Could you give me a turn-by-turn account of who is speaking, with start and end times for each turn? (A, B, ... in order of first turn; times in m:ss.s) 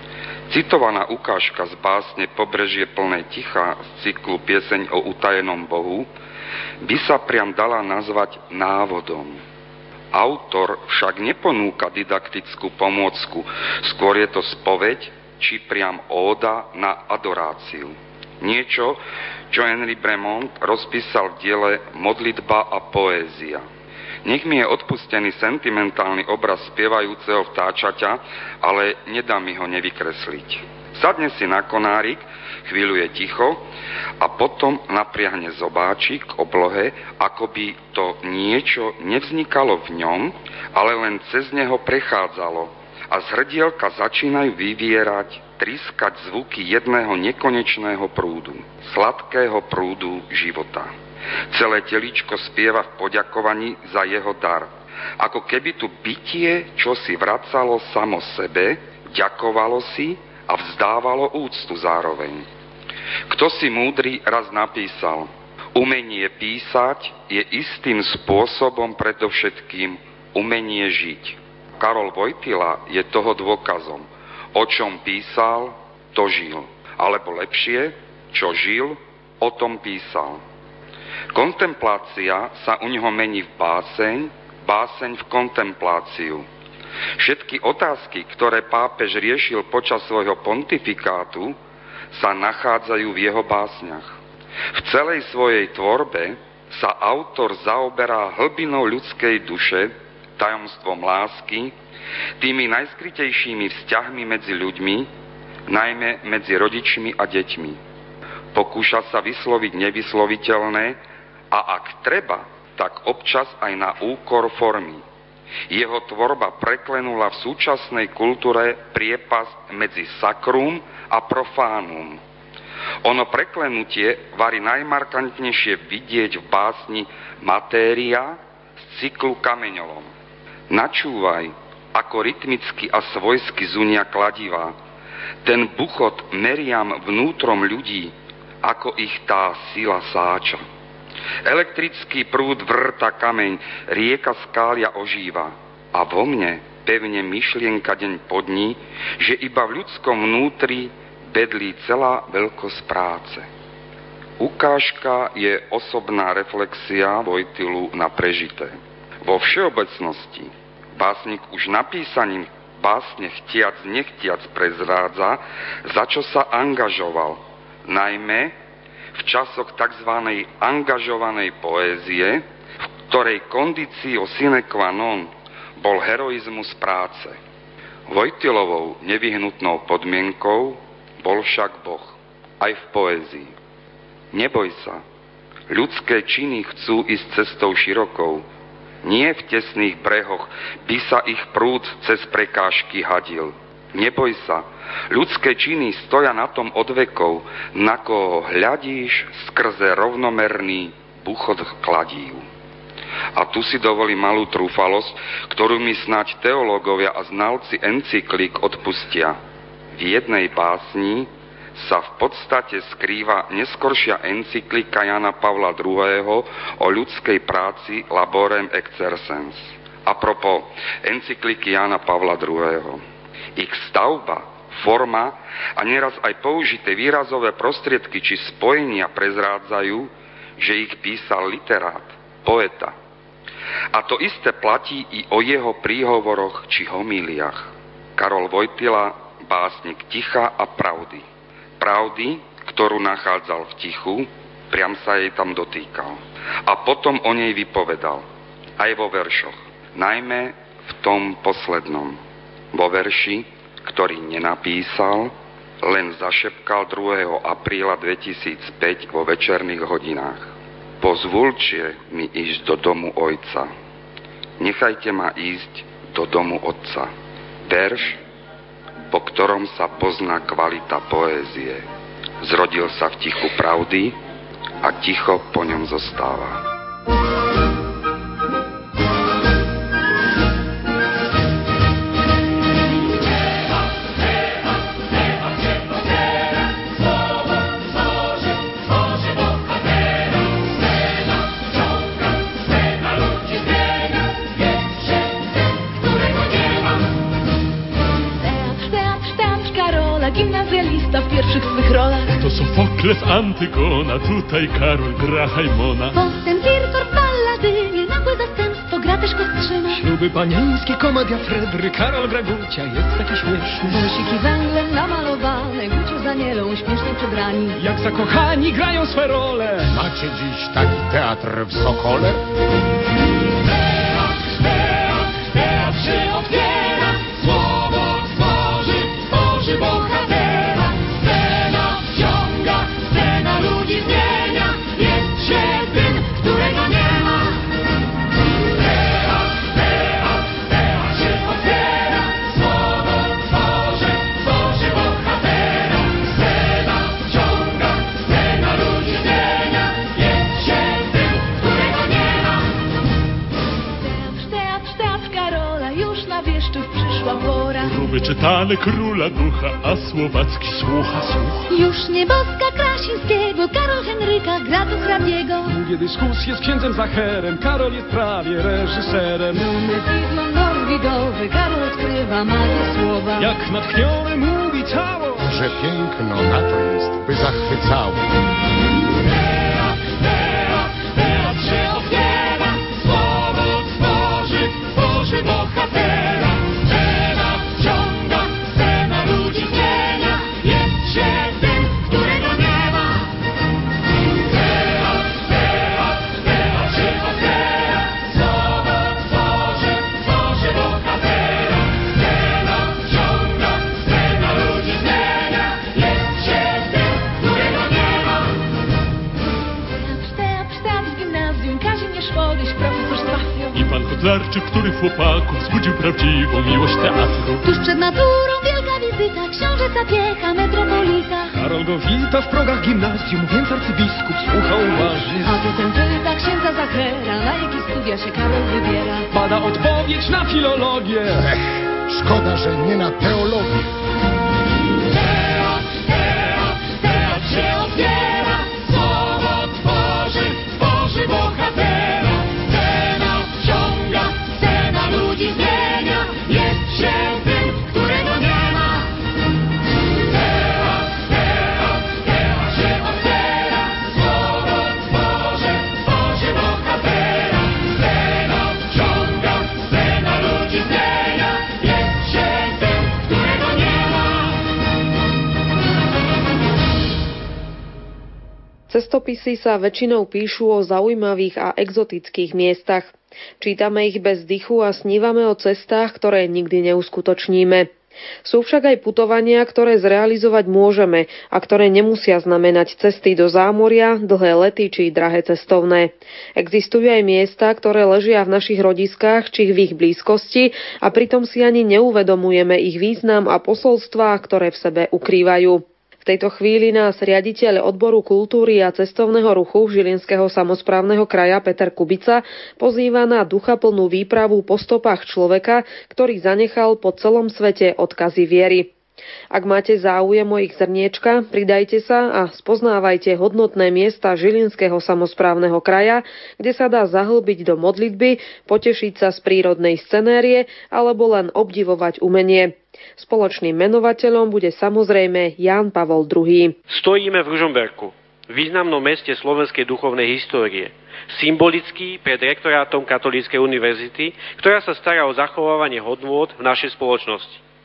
0:00.5-0:06.1 A
0:06.8-0:09.4 A
0:10.1-0:19.0 A
0:19.5-0:23.6 A
0:24.2-0:33.6 A
0:34.2-0:50.9 A
0:51.5-1:02.4 A
1:03.3-1:20.4 A
1:21.3-1:26.4 A
1:27.2-1:31.6 A
1:32.1-1:34.1 A
1:34.7-1:41.7 A
1:42.4-1:45.1 A
1:45.7-1:47.8 A
1:48.5-1:51.0 A
1:51.5-1:55.0 A
1:55.7-2:02.2 A
2:03.0-2:10.1 A
2:10.7-2:14.7 A
2:15.4-2:20.6 A
2:21.4-2:33.4 A
2:34.4-2:48.5 A
2:49.1-2:52.4 A
2:53.1-2:57.4 A
2:58.1-3:03.5 A
3:04.3-3:05.0 A
3:05.7-3:08.4 A
3:09.0-3:22.4 A
3:23.3-3:29.4 A
3:29.9-3:43.0 A
3:43.6-3:52.9 A
3:53.9-4:01.2 A
4:01.8-4:08.2 A
4:08.8-4:12.2 A
4:12.7-4:23.7 A
4:24.6-4:27.1 A
4:27.6-4:28.2 A
4:29.1-4:31.8 A
4:32.4-4:34.2 A
4:34.8-4:36.6 A
4:58.4-5:02.3 B
5:02.3-5:06.1 C
5:06.1-5:10.0 B
5:09.9-5:14.0 D
5:13.9-5:17.8 B
5:17.7-5:19.9 D
5:19.9-5:22.4 E
5:29.8-5:30.7 B
5:33.2-5:37.2 B
5:51.8-5:52.3 B
5:54.0-5:57.9 B
5:57.8-6:01.5 C
6:01.7-6:05.7 B
6:05.6-6:09.8 D
6:09.7-6:13.5 B
6:13.4-6:15.7 D
6:15.4-6:18.3 E
6:21.7-6:22.1 B
6:29.2-6:30.0 B
6:49.9-6:53.8 B
6:53.7-6:57.6 C
6:57.6-7:01.5 B
7:01.5-7:05.5 D
7:05.4-7:09.3 B
7:09.3-7:11.4 D
7:12.1-7:13.8 E
7:16.8-7:18.7 B
7:20.7-7:21.9 B
7:23.8-7:28.8 B
7:48.9-7:57.9 F
7:58.4-8:28.9 F
8:29.5-8:46.8 F
8:46.9-8:57.6 G